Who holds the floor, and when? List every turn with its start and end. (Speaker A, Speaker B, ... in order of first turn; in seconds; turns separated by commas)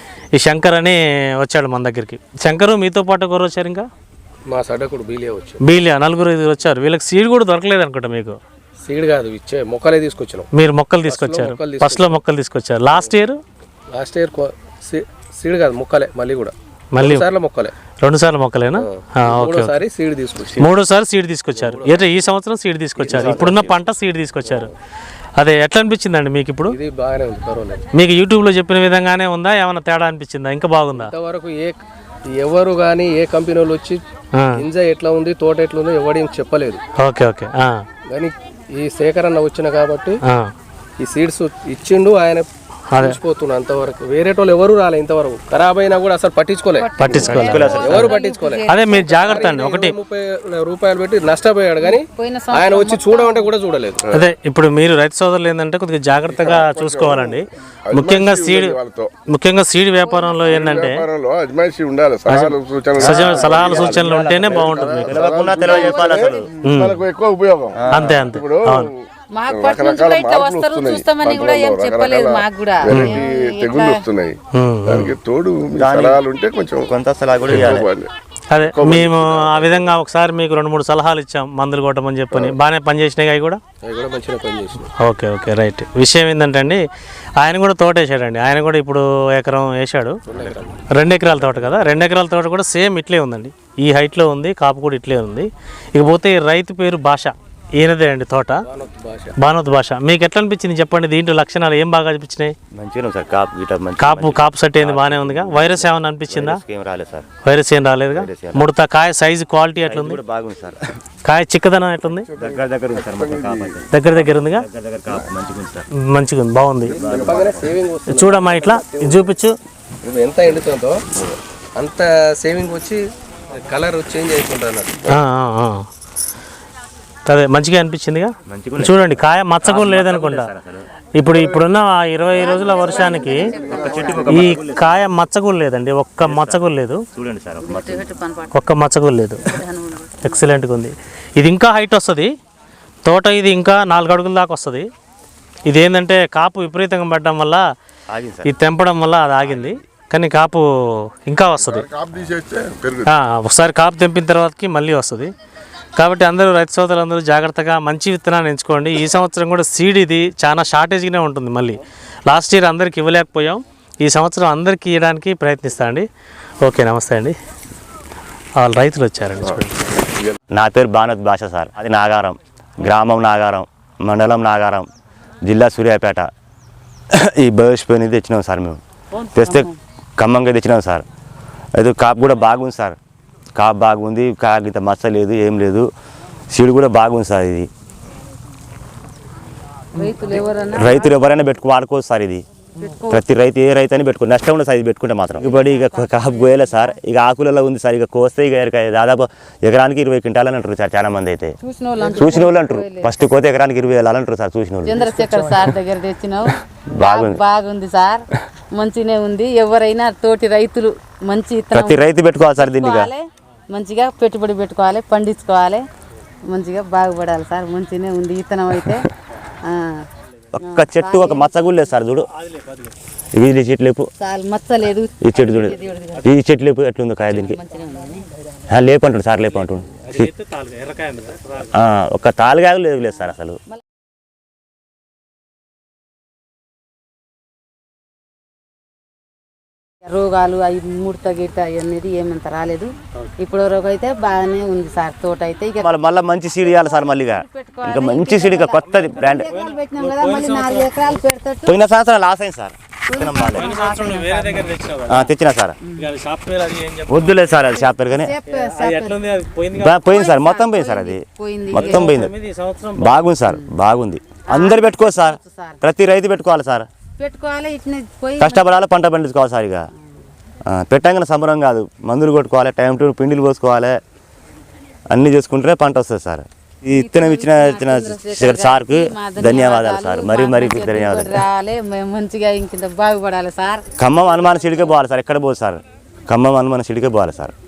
Speaker A: 0.3-3.9, Speaker B: 4.5-5.6, Speaker A: 5.6-8.4, Speaker B: 8.8-10.5, Speaker A: 10.5-13.4, Speaker B: 11.0-12.1, Speaker B: 13.9-17.7, Speaker A: 16.9-17.3, Speaker A: 18.0-19.8, Speaker B: 18.8-20.7, Speaker A: 20.6-24.7, Speaker B: 21.6-22.2, Speaker B: 23.0-23.6, Speaker C: 23.1-23.8, Speaker B: 24.4-24.7, Speaker A: 25.4-26.8, Speaker B: 26.7-27.9, Speaker A: 28.0-31.1, Speaker B: 30.9-34.0, Speaker A: 34.4-34.6, Speaker B: 34.5-36.8, Speaker A: 37.0-37.8, Speaker B: 38.1-40.2, Speaker A: 40.3-40.5, Speaker B: 41.0-46.9, Speaker A: 42.9-43.2, Speaker D: 46.8-49.5, Speaker A: 47.0-48.1, Speaker C: 47.1-48.1, Speaker B: 47.7-54.1, Speaker A: 48.7-50.0, Speaker D: 51.8-53.5, Speaker A: 54.1-58.8, Speaker E: 56.3-59.1, Speaker A: 59.3-61.1, Speaker D: 60.0-60.7, Speaker E: 60.5-68.9, Speaker A: 62.3-65.2, Speaker C: 63.0-66.5, Speaker D: 65.6-66.5, Speaker A: 66.6-67.0, Speaker C: 67.8-68.1, Speaker A: 67.9-68.9, Speaker D: 69.3-74.0, Speaker E: 69.5-76.9, Speaker A: 72.9-73.2, Speaker A: 74.6-75.1, Speaker C: 75.8-76.2, Speaker C: 76.9-77.9, Speaker A: 77.5-77.8, Speaker E: 77.5-79.9, Speaker A: 78.5-83.6, Speaker B: 83.8-84.9, Speaker A: 85.0-86.8, Speaker A: 87.4-90.2, Speaker B: 90.3-91.9, Speaker A: 90.9-98.7, Speaker B: 98.7-99.4, Speaker A: 99.4-102.5, Speaker C: 102.7-107.3, Speaker A: 104.0-106.6, Speaker A: 107.5-110.2, Speaker C: 108.1-108.7, Speaker C: 109.9-110.8, Speaker A: 111.2-112.3, Speaker E: 112.3-113.8, Speaker C: 112.4-115.9, Speaker A: 113.9-114.7, Speaker A: 116.0-117.0, Speaker B: 116.9-119.3, Speaker C: 116.9-117.8, Speaker E: 117.0-117.3, Speaker A: 118.1-119.6, Speaker B: 120.0-121.1, Speaker B: 121.8-125.2, Speaker A: 125.1-125.8, Speaker A: 127.3-130.5, Speaker C: 128.5-130.9, Speaker A: 131.2-133.5, Speaker D: 132.3-134.6, Speaker C: 133.6-134.9, Speaker A: 134.3-137.0, Speaker C: 136.2-138.1, Speaker D: 137.6-138.6, Speaker A: 138.5-139.5, Speaker D: 139.4-140.4, Speaker A: 140.2-142.3, Speaker A: 143.1-144.9, Speaker A: 145.7-147.6, Speaker C: 148.1-148.5, Speaker A: 148.4-151.9, Speaker C: 149.5-149.8, Speaker E: 151.6-153.1, Speaker A: 153.1-155.3, Speaker A: 156.0-166.1, Speaker A: 166.6-167.3, Speaker A: 168.6-169.8, Speaker C: 170.5-174.9, Speaker C: 175.4-176.3, Speaker C: 177.1-178.8, Speaker D: 179.1-179.8, Speaker C: 179.3-181.1, Speaker C: 181.8-183.0, Speaker C: 183.6-185.9, Speaker C: 186.5-187.7, Speaker D: 189.9-191.1, Speaker C: 190.2-192.4, Speaker D: 192.8-193.2, Speaker C: 193.1-201.6, Speaker D: 195.4-197.0, Speaker D: 201.6-203.3, Speaker C: 202.2-205.1, Speaker D: 204.8-212.0, Speaker C: 206.9-207.4, Speaker C: 211.7-213.1, Speaker D: 212.6-215.8, Speaker D: 216.5-219.1, Speaker D: 219.6-220.0, Speaker C: 220.5-222.3, Speaker D: 220.6-221.8, Speaker A: 222.4-222.9, Speaker C: 223.3-224.1, Speaker D: 224.2-226.3, Speaker C: 225.2-227.6, Speaker D: 227.3-228.2, Speaker C: 228.7-230.3, Speaker A: 230.0-231.8, Speaker C: 231.7-233.6, Speaker D: 240.1-245.9, Speaker C: 245.8-249.5, Speaker D: 246.6-251.8, Speaker A: 248.8-251.2, Speaker C: 251.7-253.7, Speaker D: 253.1-254.7, Speaker A: 253.5-255.3, Speaker C: 255.1-255.8, Speaker A: 256.0-257.9, Speaker C: 257.1-258.3, Speaker D: 258.1-259.2, Speaker A: 258.5-260.0, Speaker C: 259.8-262.3, Speaker D: 260.1-262.1, Speaker A: 261.8-263.3, Speaker C: 263.0-266.9, Speaker D: 264.5-265.8, Speaker D: 267.2-268.7, Speaker C: 268.4-269.9, Speaker C: 270.7-274.0, Speaker C: 275.1-281.4, Speaker D: 276.9-283.8, Speaker C: 284.0-287.5, Speaker D: 284.4-284.9